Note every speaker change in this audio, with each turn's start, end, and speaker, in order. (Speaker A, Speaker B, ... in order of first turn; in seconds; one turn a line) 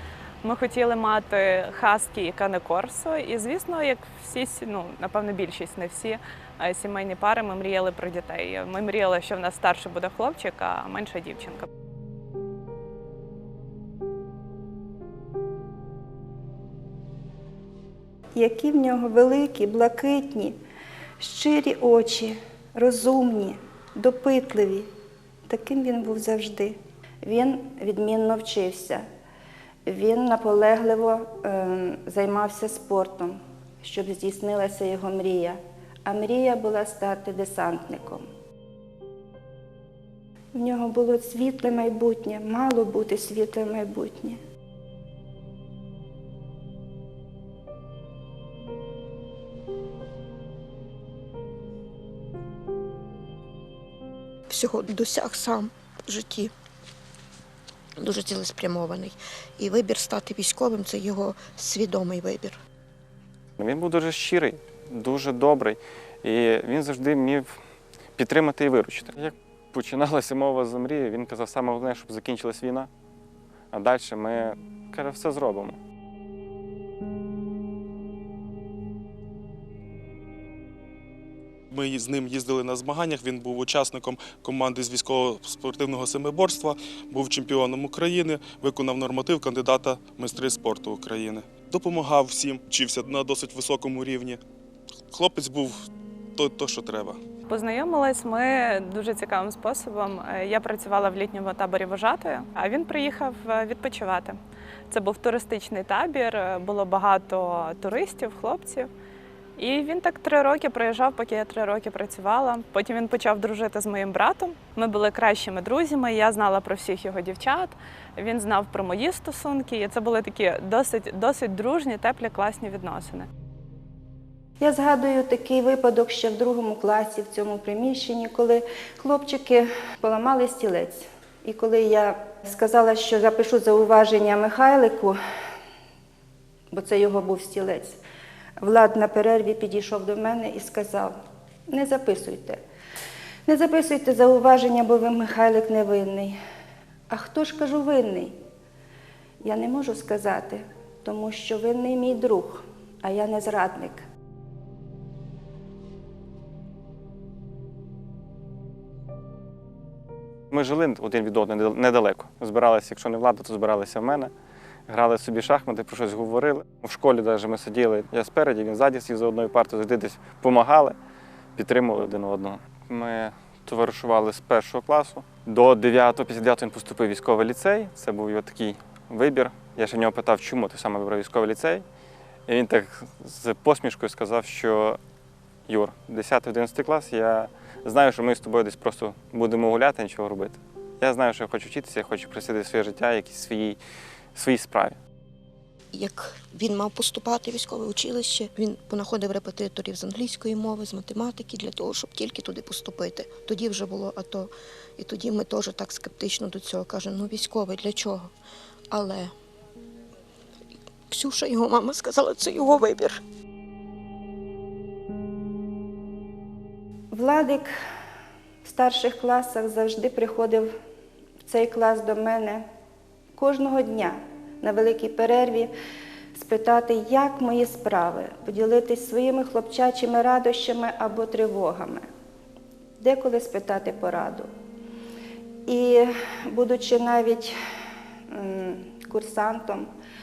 Speaker A: 0.4-11.7
Speaker B: 18.4-20.6
Speaker B: 21.2-24.9
Speaker B: 25.5-29.0
Speaker B: 29.9-38.3
Speaker B: 40.5-44.4
Speaker C: 54.5-56.5
Speaker C: 58.0-62.6
Speaker D: 63.6-67.6
Speaker D: 68.2-72.9
Speaker D: 73.7-75.8
Speaker E: 81.7-94.4
Speaker E: 95.1-97.2
Speaker A: 97.5-104.4
Speaker A: 104.9-108.9
Speaker A: 109.6-123.3
Speaker B: 124.6-135.2
Speaker B: 136.7-138.0
Speaker B: 138.6-141.2
Speaker B: 141.7-142.6
Speaker B: 143.5-146.4
Speaker B: 147.1-148.3
Speaker B: 149.4-154.0
Speaker D: 160.5-164.3
Speaker D: 164.9-171.0
Speaker D: 171.6-181.8
Speaker D: 182.5-185.0
Speaker D: 185.7-193.8
Speaker D: 194.3-195.0
Speaker C: 195.9-208.3
Speaker C: 208.9-209.3
Speaker C: 211.1-213.2
Speaker B: 217.1-217.7
Speaker B: 218.6-220.7
Speaker B: 221.4-222.7
Speaker B: 223.3-225.7
Speaker B: 226.3-232.1
Speaker B: 233.0-234.5
Speaker B: 235.7-237.6
Speaker B: 238.3-239.9